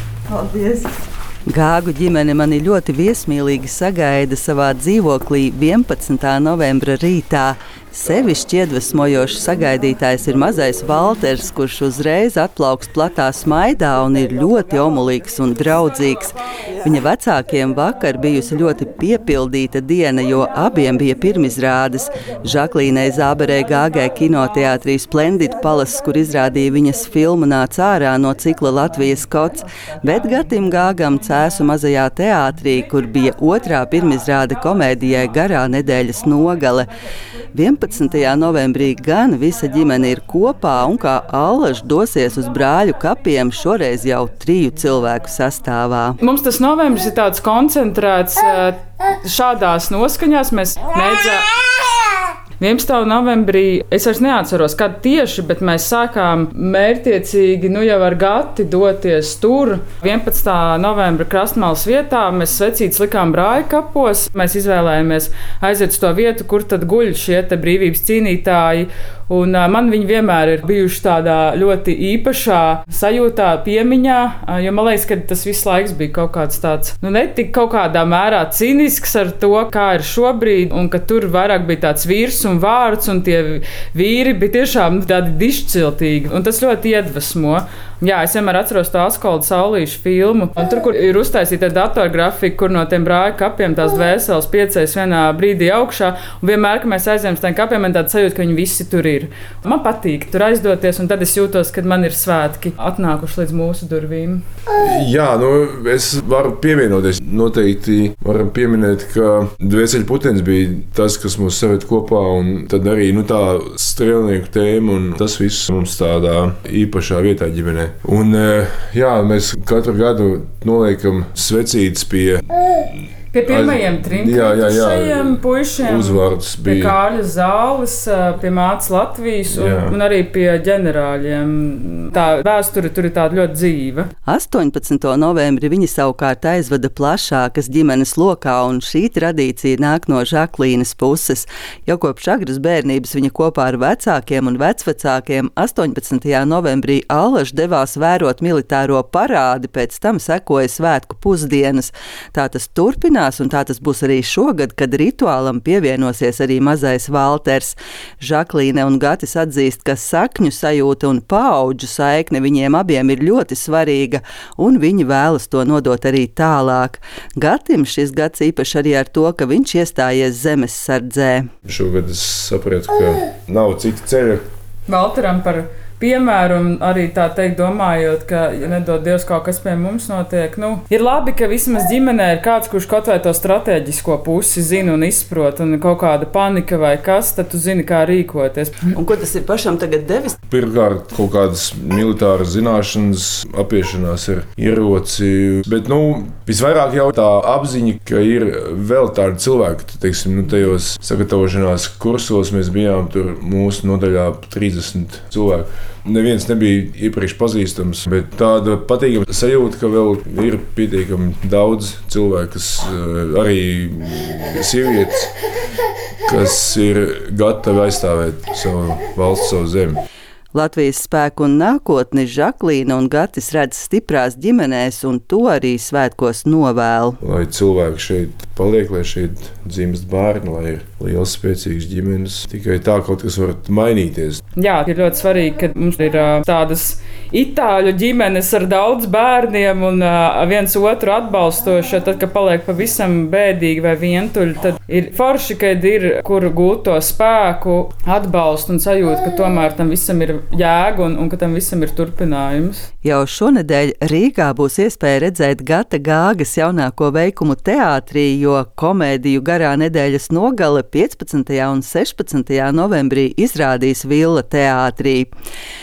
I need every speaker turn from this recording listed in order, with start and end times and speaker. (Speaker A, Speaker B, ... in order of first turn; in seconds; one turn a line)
Speaker A: 0.3-0.9
Speaker A: 1.5-36.9
Speaker A: 37.5-46.2
Speaker B: 46.2-51.6
Speaker B: 52.6-104.4
Speaker C: 104.8-122.8
Speaker B: 123.3-134.1
Speaker C: 123.5-127.0
Speaker C: 129.5-130.0
Speaker A: 134.2-171.5
Speaker C: 171.7-174.4
Speaker B: 174.9-188.9
Speaker A: 188.9-190.4
Speaker C: 190.5-215.3
Speaker C: 216.2-220.0
Speaker A: 220.5-227.2
Speaker C: 227.2-234.4
Speaker B: 234.5-252.9
Speaker A: 253.0-265.3